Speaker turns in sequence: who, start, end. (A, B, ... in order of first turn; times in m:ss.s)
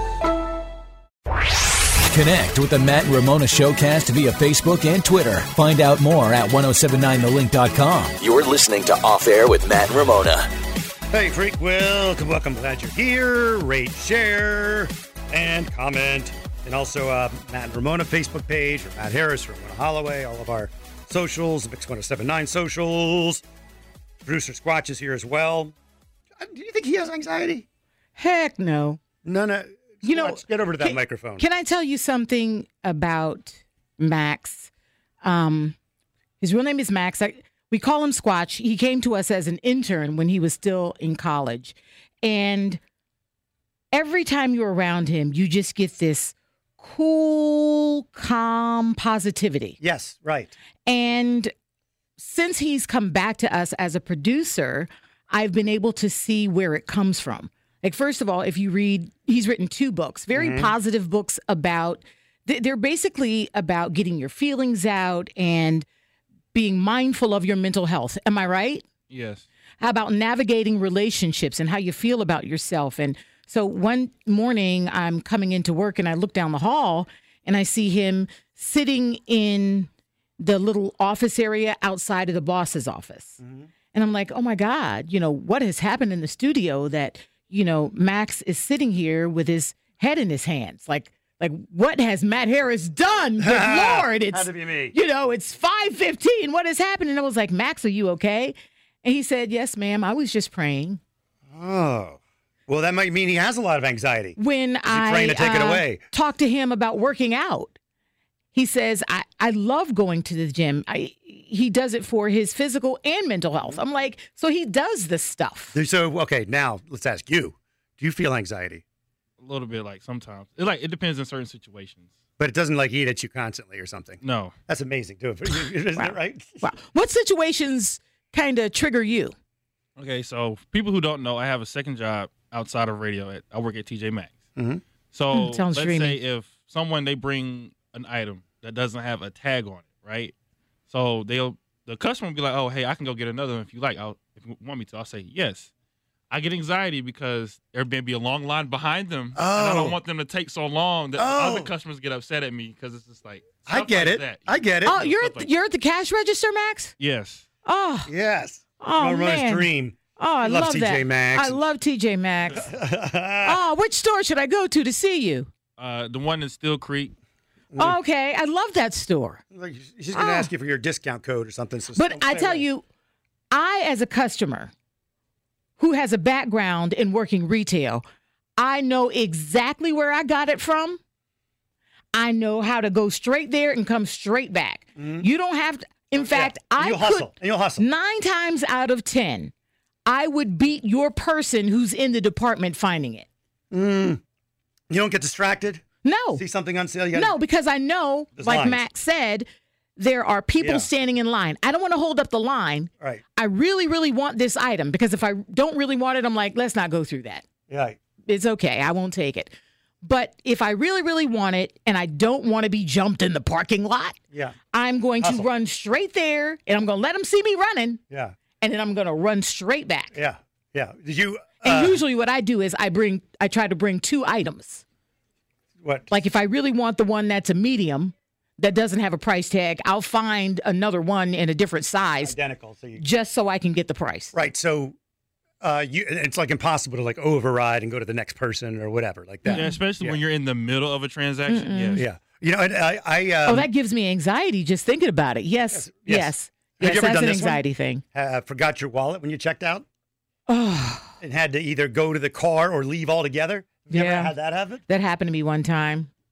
0:02.2-0:08.1 A
0:08.2-0:10.5 B
0:11.1-0:23.4 C
0:24.2-0:25.7 C
0:26.4-0:27.6 C
0:28.2-0:29.0 D
0:29.2-0:31.4 C
0:30.0-0:34.7 D
0:35.2-0:35.8 D
0:36.4-0:42.8 D
0:43.9-0:49.8 D
0:49.8-0:50.6 C
0:50.8-0:51.5 D
0:52.2-1:05.8 D
1:00.3-1:00.7 C
1:06.5-1:08.8 D
1:09.1-1:09.4 E
1:09.8-1:19.9 D
1:20.4-1:23.4 D
1:23.4-1:23.7 C
1:23.9-1:41.0 D
1:33.4-1:35.0 C
1:41.5-1:46.0 C
1:44.4-1:47.8 D
1:48.5-1:55.8 D
1:55.7-1:58.8 C
1:59.4-2:02.1 E
2:02.4-2:06.7 C
2:04.2-2:04.5 E
2:05.5-2:09.3 D
2:10.0-2:14.3 E
2:14.6-2:14.8 C
2:15.1-2:20.3 E
2:15.3-2:16.2 D
2:20.9-2:25.7 E
2:26.3-2:35.5 E
2:29.3-2:30.0 C
2:31.2-2:31.7 C
2:33.7-2:35.0 C
2:34.8-2:36.9 D
2:37.0-2:37.4 E
2:37.6-2:38.1 D
2:38.1-2:41.6 C
2:38.8-2:42.7 D
2:42.5-2:43.6 C
2:43.4-2:45.5 D
2:45.8-2:47.1 E
2:47.7-2:48.0 C
2:47.8-2:49.4 D
2:49.5-2:52.6 C
2:50.1-2:50.5 D
2:51.9-2:52.8 D
2:53.5-2:54.7 D
2:55.8-2:58.0 D
2:58.6-3:01.0 D
3:02.1-3:09.5 D
3:05.0-3:05.3 C
3:06.1-3:07.8 C
3:10.0-3:13.3 D
3:13.7-3:14.2 C
3:14.9-3:15.8 C
3:16.0-3:16.4 D
3:16.3-3:17.4 C
3:17.1-3:27.4 D
3:18.4-3:18.8 C
3:20.6-3:20.9 C
3:27.7-3:28.0 C
3:28.2-3:34.2 D
3:34.7-3:38.0 D
3:35.2-3:35.5 C
3:38.1-3:38.4 C
3:38.6-3:40.1 D
3:40.1-3:42.0 C
3:41.6-3:44.8 D
3:45.8-3:46.2 C
3:46.1-3:52.3 D
3:52.2-3:53.0 C
3:53.0-3:54.3 D
3:54.3-3:55.0 C
3:55.6-4:00.2 C
3:59.4-3:59.8 D
3:59.5-4:02.0 E
4:01.5-4:02.0 D
4:02.0-4:03.7 C
4:03.4-4:08.0 D
4:05.7-4:07.6 C
4:08.1-4:09.8 C
4:10.5-4:11.1 D
4:11.2-4:14.8 C
4:13.9-4:14.3 D
4:14.9-4:16.1 D